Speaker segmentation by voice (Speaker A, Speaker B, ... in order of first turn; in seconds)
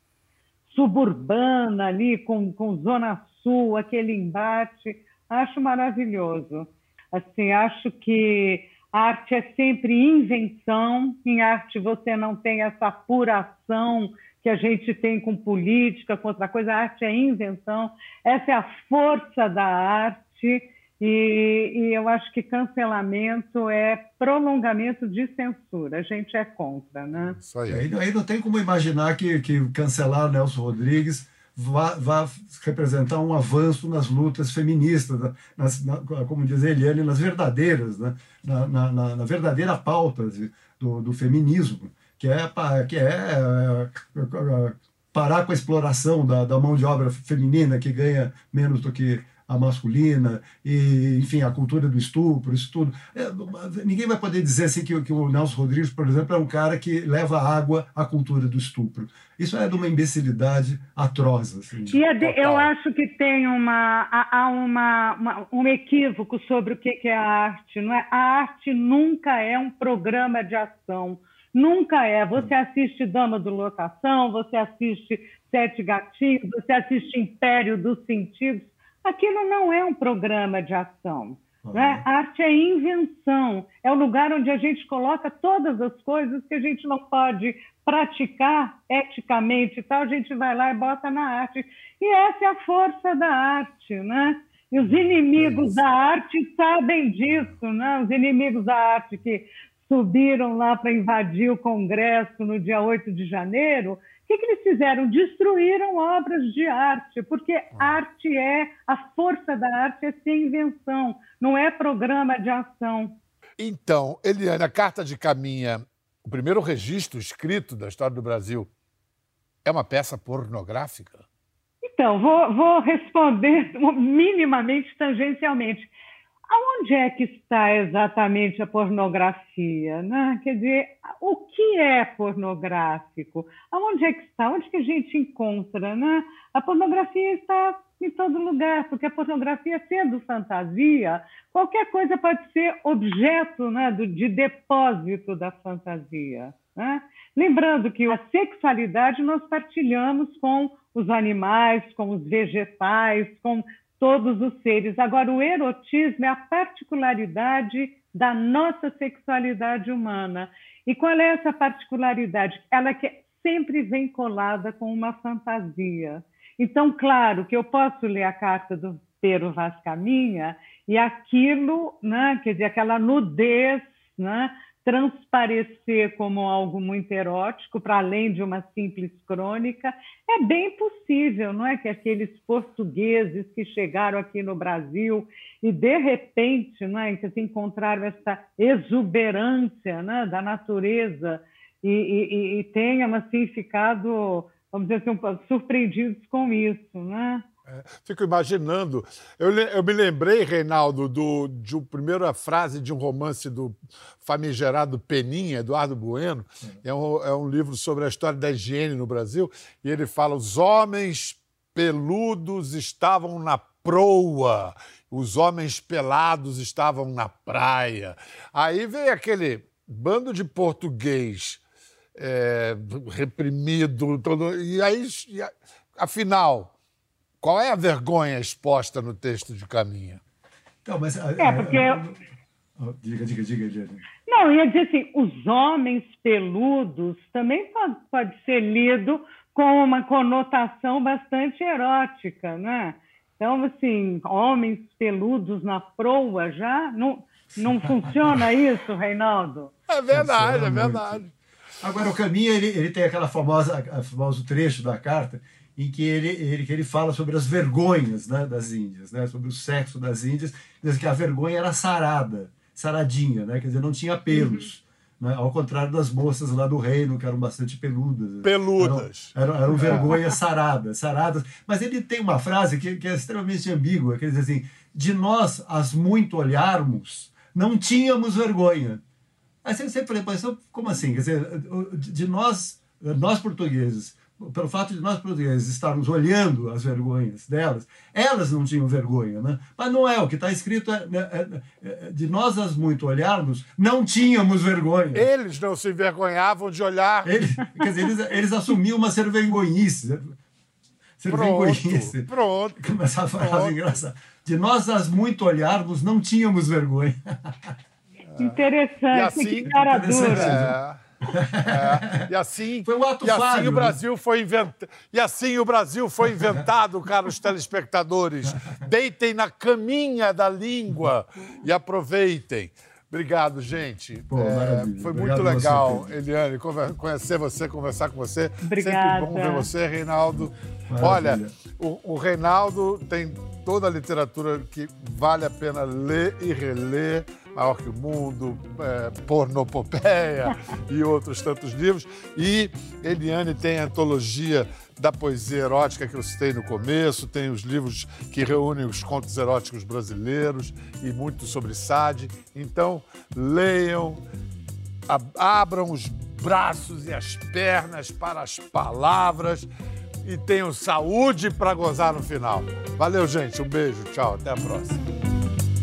Speaker A: 0.7-27.4, 61.9-113.2, 121.8-125.9, 126.5-197.4, 231.4-232.0, 234.3-249.7, 308.4-310.6, 328.6-329.7
Speaker B: 27.2-27.9, 62.2-62.7, 113.6-118.7, 119.6-121.2, 197.7-221.6, 222.2-226.8, 227.4-230.2, 249.9-251.3, 268.4-270.2, 295.1-297.5, 301.3-304.0, 308.4-311.0, 311.6-354.2, 355.1-359.7, 360.2-365.0
Speaker C: 27.7-62.0, 81.6-82.0, 230.8-232.2, 232.8-234.1, 250.1-251.2, 251.8-279.0, 279.6-295.3, 297.2-300.4, 301.2-307.7, 309.7-310.8, 311.3-312.3, 312.8-314.0, 324.3-326.1, 330.9-331.6